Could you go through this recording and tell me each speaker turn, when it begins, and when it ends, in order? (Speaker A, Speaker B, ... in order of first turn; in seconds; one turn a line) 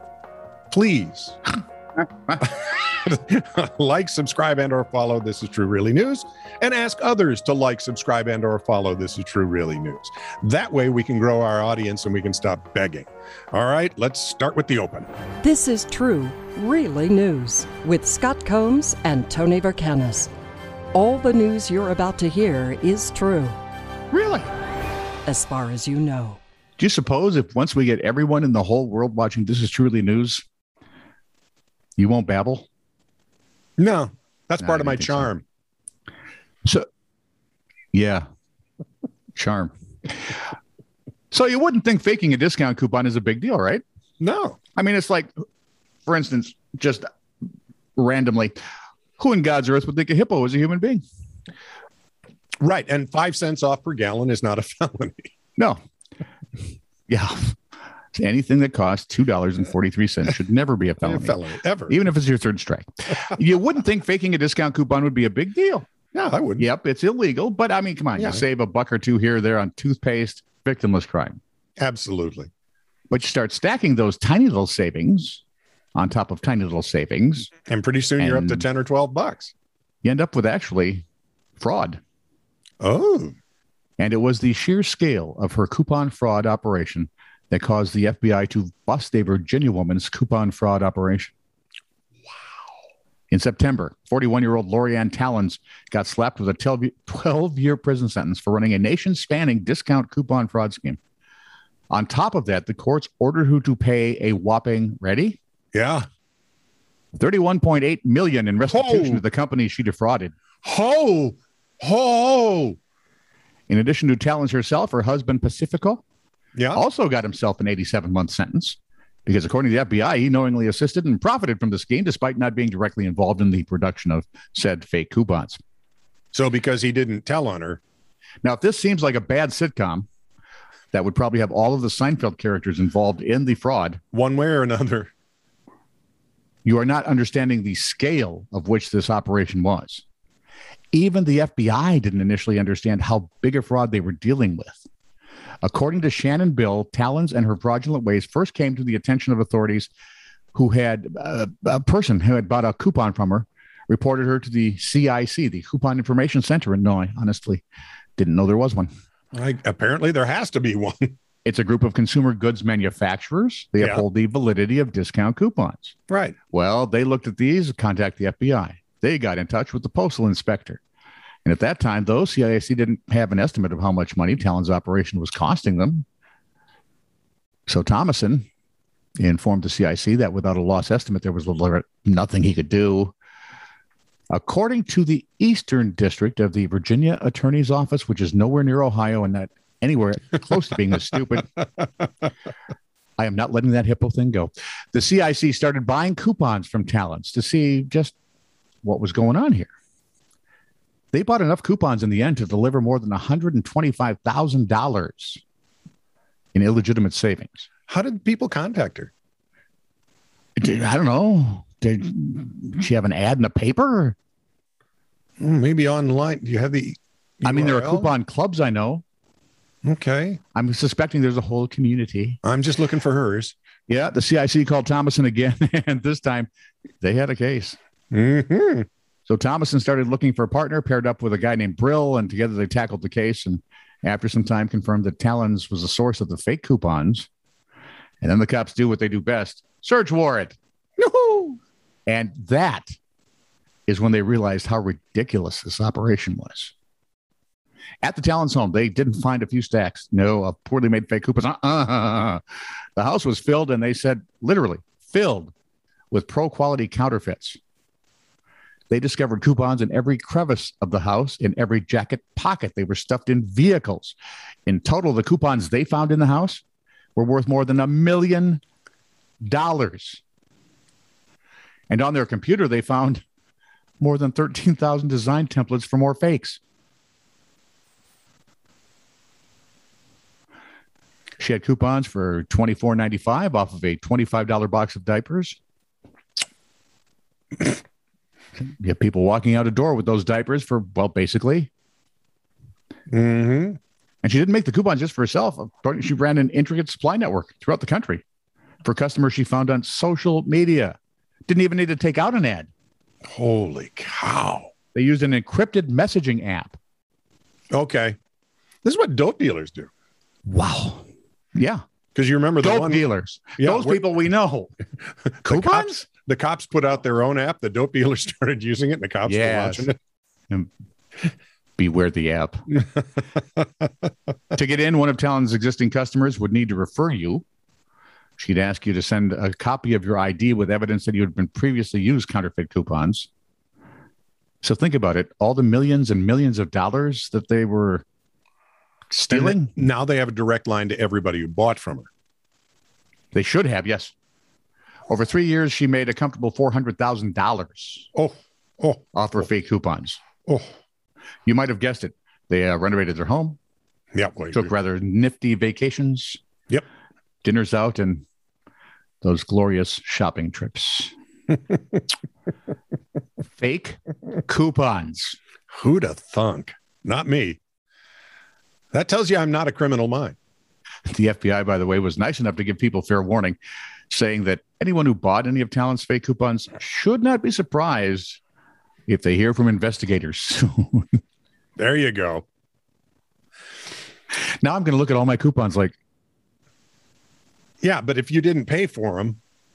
Speaker A: 0.7-1.5
Speaker A: 2.3-15.1
Speaker B: 15.4-20.3
Speaker B: 20.9-23.6
Speaker C: 24.1-24.5
Speaker B: 25.3-26.4
Speaker C: 26.8-30.4
Speaker C: 32.0-32.7
Speaker A: 33.8-35.4
Speaker C: 34.6-35.3
Speaker C: 37.9-38.2
Speaker C: 39.4-40.3
Speaker C: 41.3-43.8
Speaker A: 44.2-44.6
Speaker C: 44.8-45.3
Speaker C: 46.1-47.1
Speaker C: 48.0-48.6
Speaker C: 49.2-51.0
Speaker A: 52.6-55.3
Speaker C: 57.1-57.6
Speaker C: 58.1-65.9
Speaker A: 61.0-62.0
Speaker A: 66.1-66.7
Speaker C: 66.6-71.4
Speaker A: 71.8-72.5
Speaker C: 73.1-75.4
Speaker C: 76.0-77.5
Speaker A: 77.7-79.5
Speaker C: 78.2-78.7
Speaker C: 80.0-81.0
Speaker C: 81.6-82.0
Speaker A: 82.8-83.4
Speaker C: 84.0-91.3
Speaker C: 93.3-101.0
Speaker C: 101.9-105.4
Speaker A: 105.7-106.1
Speaker C: 107.2-110.3
Speaker A: 108.7-109.2
Speaker A: 110.6-112.8
Speaker C: 113.7-116.0
Speaker A: 116.6-116.8
Speaker C: 116.7-125.6
Speaker A: 126.3-127.8
Speaker C: 128.4-130.1
Speaker C: 130.9-134.0
Speaker A: 134.1-135.1
Speaker C: 136.7-140.0
Speaker C: 140.9-144.9
Speaker C: 145.6-149.9
Speaker C: 150.5-157.7
Speaker C: 158.2-158.9
Speaker A: 159.3-161.2
Speaker C: 161.4-166.0
Speaker A: 163.8-164.0
Speaker A: 166.1-166.4
Speaker C: 166.5-170.8
Speaker C: 171.4-176.1
Speaker C: 177.7-178.5
Speaker C: 179.2-183.2
Speaker C: 184.3-191.5
Speaker C: 193.2-198.2
Speaker C: 198.8-199.7
Speaker C: 201.1-205.4
Speaker C: 206.5-207.7
Speaker A: 207.9-209.1
Speaker C: 210.6-214.2
Speaker A: 215.4-218.1
Speaker C: 217.4-219.0
Speaker A: 219.8-220.4
Speaker C: 220.6-222.4
Speaker A: 222.4-223.6
Speaker C: 223.9-226.5
Speaker C: 227.0-227.8
Speaker A: 228.1-228.9
Speaker C: 229.3-237.3
Speaker C: 238.2-240.6
Speaker A: 241.0-241.6
Speaker C: 242.1-243.0
Speaker C: 243.9-246.7
Speaker C: 248.0-252.4
Speaker C: 253.0-255.5
Speaker C: 256.1-257.6
Speaker C: 258.9-266.6
Speaker C: 267.2-268.6
Speaker C: 269.4-270.2
Speaker C: 271.9-273.2
Speaker C: 274.0-276.6
Speaker C: 281.4-285.6
Speaker C: 288.6-291.7
Speaker A: 293.1-293.8
Speaker C: 294.2-298.2
Speaker C: 298.8-301.0
Speaker C: 301.5-302.7
Speaker A: 303.3-304.7
Speaker C: 304.9-306.8
Speaker A: 307.7-308.2
Speaker A: 308.8-309.9
Speaker C: 310.5-311.8
Speaker A: 312.1-314.0
Speaker C: 312.6-314.7
Speaker A: 315.4-319.9
Speaker C: 315.4-316.1
Speaker C: 319.3-319.9
Speaker C: 321.8-322.7
Speaker C: 324.5-327.4
Speaker C: 328.4-333.3
Speaker C: 334.6-338.0
Speaker C: 339.1-339.7
Speaker A: 339.3-342.1
Speaker C: 343.3-344.1
Speaker C: 345.1-348.1
Speaker A: 348.1-349.1
Speaker C: 349.1-350.2
Speaker A: 350.5-350.7
Speaker C: 351.5-353.6
Speaker A: 354.1-354.7
Speaker C: 354.5-356.4
Speaker C: 357.4-358.2
Speaker C: 359.2-361.1
Speaker C: 363.5-365.4
Speaker A: 365.7-367.6
Speaker A: 368.9-370.4
Speaker C: 371.1-373.6
Speaker C: 374.1-378.4
Speaker C: 379.1-381.2
Speaker A: 381.8-382.5
Speaker C: 384.4-386.0
Speaker A: 387.8-389.4